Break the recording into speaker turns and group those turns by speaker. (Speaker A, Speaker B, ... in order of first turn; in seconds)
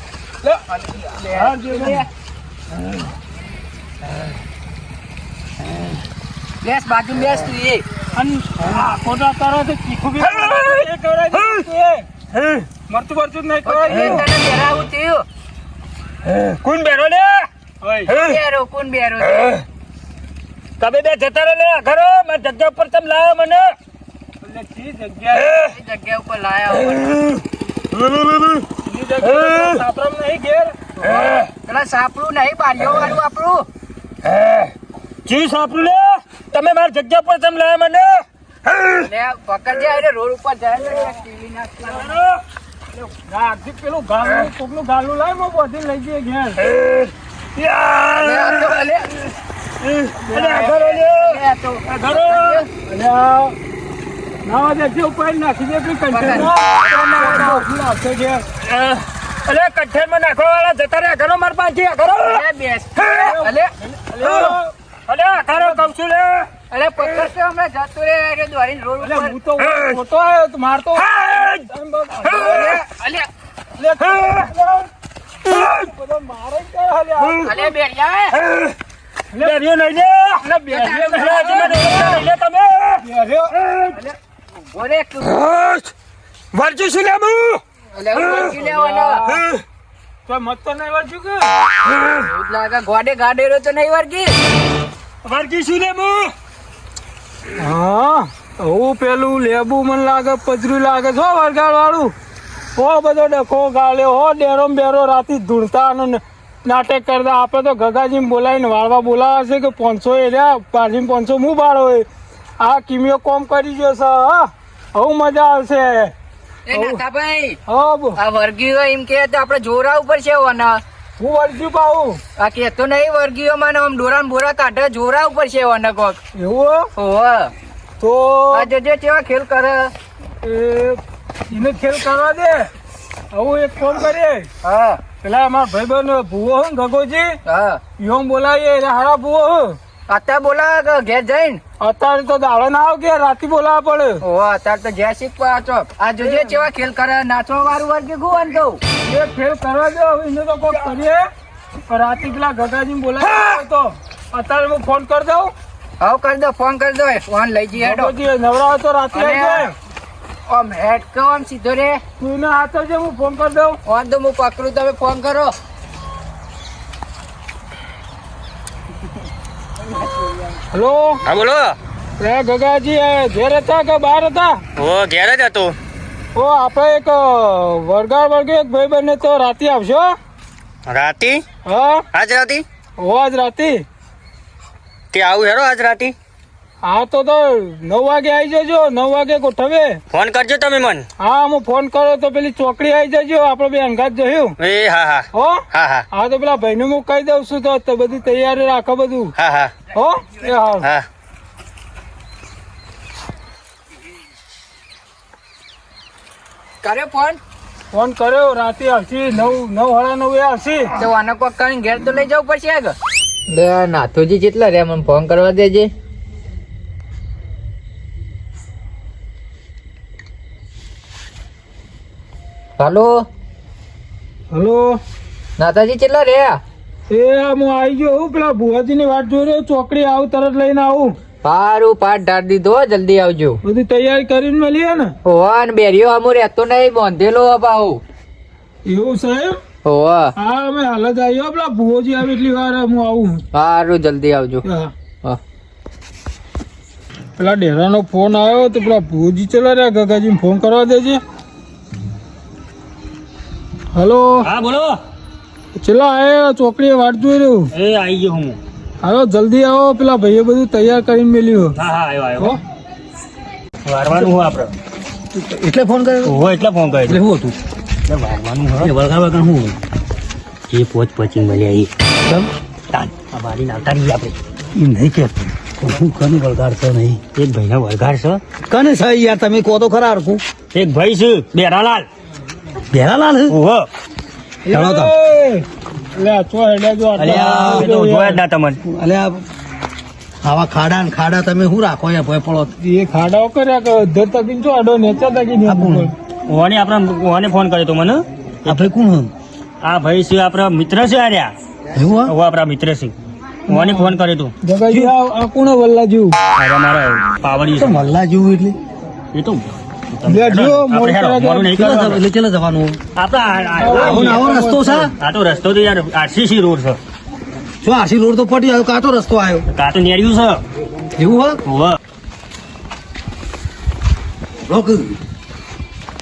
Speaker A: 0.7-2.1, 6.6-7.8, 13.6-15.2, 18.1-19.6, 25.6-27.2, 31.6-33.7, 38.9-42.2, 48.1-49.1, 50.3-52.7, 56.1-57.6, 62.2-63.7, 66.7-69.4, 72.4-73.3, 77.4-78.4, 80.7-82.2, 83.9-85.4, 87.9-89.3, 92.1-94.4, 116.7-117.6, 118.2-120.8, 122.4-126.2, 127.0-127.5, 128.5-129.9, 134.6-135.0, 137.4-137.8, 140.1-141.6, 144.2-148.8, 156.0-158.1, 159.1-159.7, 160.5-162.0, 163.8-165.5, 206.8-207.4, 210.9-212.9, 213.5-215.9, 222.8-223.2, 225.6-226.6, 231.4-233.6, 235.2-238.0, 239.8-240.3, 243.5-244.7
Speaker B: 1.3-2.0, 8.1-12.1, 12.8-14.2, 17.8-18.1, 24.4-25.6, 28.8-31.3, 43.0-46.6, 50.3-50.7, 52.8-53.5, 54.4-58.5, 63.1-64.7, 65.5-65.8, 69.0-72.8, 73.7-77.7, 79.3-79.6, 80.4-82.2, 83.0-83.6, 88.4-89.4, 90.2-91.5, 97.6-102.1, 102.8-112.1, 112.6-116.1, 116.7-117.0, 117.7-118.2, 121.2-122.2, 126.3-126.9, 128.0-128.7, 130.4-132.7, 133.3-134.5, 135.2-137.4, 138.0-139.8, 141.8-144.2, 146.2-146.5, 149.1-151.3, 151.9-155.5, 157.8-159.7, 162.2-163.8, 170.7-171.2, 172.2-174.6, 176.3-180.2, 181.6-182.1, 183.0-183.8, 186.8-190.0, 191.2-194.6, 195.3-199.3, 199.9-200.9, 207.9-210.9, 224.5-225.0, 227.1-231.2, 233.6-235.1, 238.8-239.6, 240.4-243.4, 244.6-244.9, 247.4-251.2, 253.9-254.5, 255.8-257.7, 259.0-261.8, 284.6-288.4, 292.8-296.1, 303.7-306.4, 310.2-312.0, 313.8-315.1
Speaker C: 10.2-11.6, 12.3-12.7, 16.2-17.5, 18.1-18.4, 20.8-23.7, 25.4-25.7, 27.9-28.7, 29.2-29.8, 34.2-34.7, 35.2-39.0, 42.0-42.4, 46.6-48.8, 49.8-52.6, 58.6-62.4, 63.0-63.2, 64.2-64.5, 65.1-66.5, 69.6-70.0, 71.0-71.7, 72.2-72.8, 74.0-74.5, 75.5-75.9, 78.3-78.7, 79.4-80.5, 81.0-83.1, 83.6-83.9, 85.3-85.9, 86.5-87.6, 89.3-89.6, 95.2-96.3, 171.2-171.8, 174.8-175.8, 180.8-181.4, 182.1-182.6, 185.1-186.1, 190.1-191.1, 194.6-196.1, 199.4-199.8, 254.4-255.0, 257.7-258.6, 261.7-262.5, 263.8-264.7, 266.2-267.2, 268.1-268.9, 270.7-271.9, 272.9-274.4, 277.3-278.4, 280.7-282.1, 283.5-283.9, 287.3-288.8, 296.4-298.9, 299.8-301.5, 302.2-303.1, 303.7-304.5, 306.5-308.0, 309.3-312.2, 313.1-314.5, 315.1-317.0, 319.7-320.6, 321.6-322.0
Speaker D: 265.3-266.4, 267.0-267.6, 268.8-269.8, 272.2-272.5, 274.7-277.2, 278.7-280.4, 282.9-283.6, 284.7-285.1, 287.2-287.9, 288.8-289.4, 290.4-292.7, 295.6-296.1, 298.6-299.3, 301.9-302.3, 307.7-308.8, 311.7-313.0, 313.9-315.1, 317.8-319.6, 321.1-321.6, 324.6-325.2